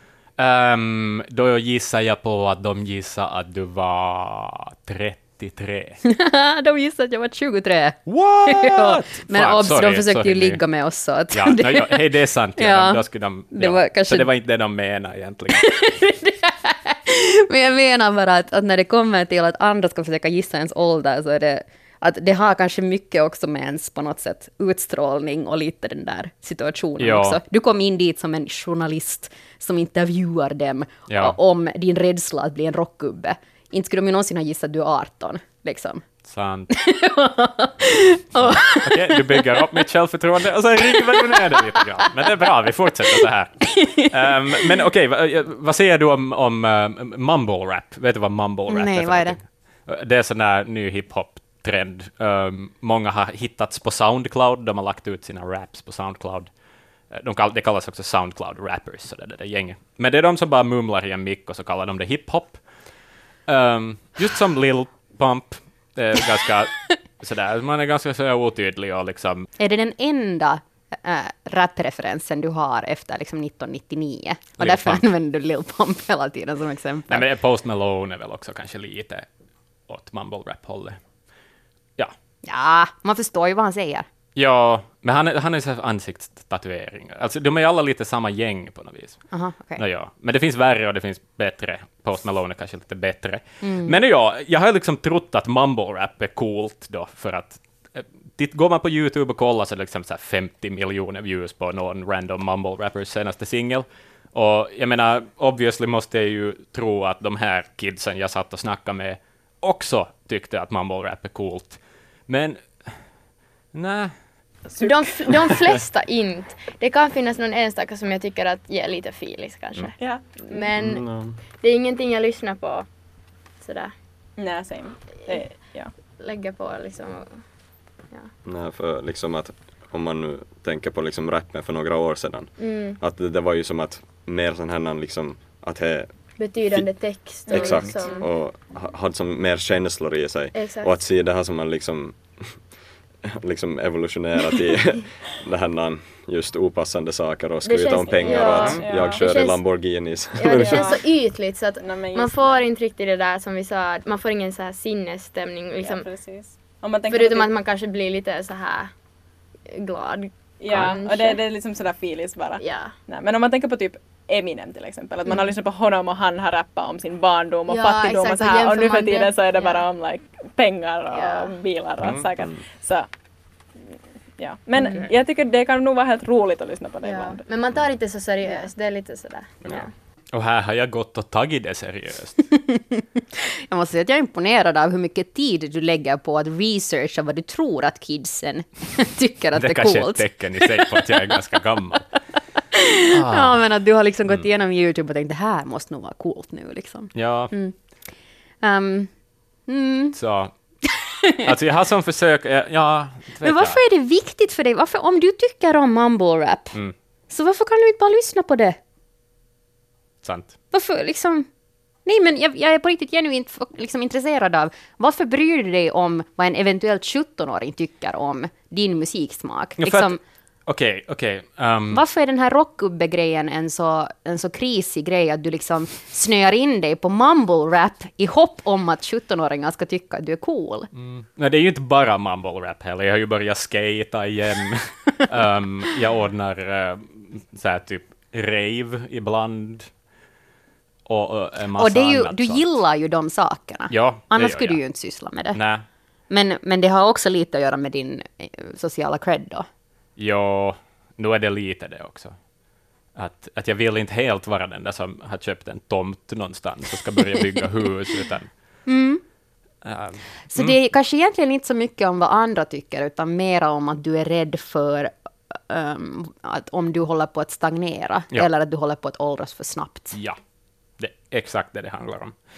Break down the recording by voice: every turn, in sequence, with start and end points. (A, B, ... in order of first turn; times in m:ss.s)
0:00.4-0:06.0 A
0:06.0-0:12.0 B
0:08.1-0:10.6 A
0:11.3-0:15.8 A
0:12.6-0:14.3 B
0:15.6-0:36.0 B
0:27.0-0:27.4 A
0:31.1-0:31.4 A
0:36.3-0:36.7 A
0:36.7-0:39.8 B
0:38.4-0:56.5 A
0:40.8-0:41.8 B
0:43.7-0:44.7 B
0:48.7-0:49.4 B
0:57.1-1:02.6 A
1:03.5-1:09.5 A
1:09.6-1:17.3 B
1:14.6-1:15.0 A
1:17.1-1:19.3 A
1:19.9-1:21.0 A
1:22.4-1:24.1 B
1:24.4-1:53.1 A
1:29.3-1:29.8 B
1:33.6-1:34.0 B
1:53.7-1:54.1 A
1:54.8-2:02.9 C
1:54.8-1:55.0 D
2:00.0-2:00.7 D
2:00.8-2:01.4 E
2:03.5-2:03.9 C
2:04.4-2:05.9 D
2:05.3-2:08.3 C
2:08.4-2:22.7 E
2:12.6-2:13.0 C
2:16.4-2:18.3 C
2:17.4-2:18.2 D
2:20.5-2:21.0 C
2:23.4-2:31.0 E
2:27.6-2:36.1 C
2:28.2-2:29.3 D
2:28.4-2:28.8 A
2:30.6-2:32.6 D
2:35.8-2:37.5 D
2:36.7-2:38.9 C
2:39.7-2:41.4 C
2:40.6-2:53.1 D
2:42.6-2:42.9 C
2:45.3-2:45.5 C
2:47.7-2:49.8 C
2:51.1-2:51.5 C
2:52.0-2:52.3 A
2:54.4-2:57.4 D
2:54.8-2:55.1 C
2:57.0-2:59.9 C
2:58.4-2:58.7 D
3:00.3-3:02.4 A
3:02.5-3:11.1 B
3:09.6-3:12.1 A
3:12.7-3:17.9 B
3:13.1-3:13.7 A
3:17.1-3:17.5 A
3:18.6-3:19.1 B
3:19.7-3:20.2 B
3:20.1-3:20.6 A
3:20.9-3:21.5 B
3:21.4-3:23.8 A
3:23.4-3:26.8 B
3:27.3-3:28.8 B
3:30.2-3:30.6 A
3:30.7-3:31.5 B
3:32.0-3:40.2 B
3:39.8-3:42.0 A
3:41.9-3:50.9 B
3:50.9-3:59.9 A
4:01.1-4:02.8 A
4:01.8-4:05.6 B
4:03.9-4:04.8 A
4:05.5-4:05.8 A
4:06.3-4:09.7 B
4:10.2-4:12.4 A
4:13.2-4:18.5 A
4:18.9-4:19.2 B
4:19.8-4:20.8 A
4:20.5-4:30.2 B
4:30.1-4:30.4 A
4:31.0-4:32.4 A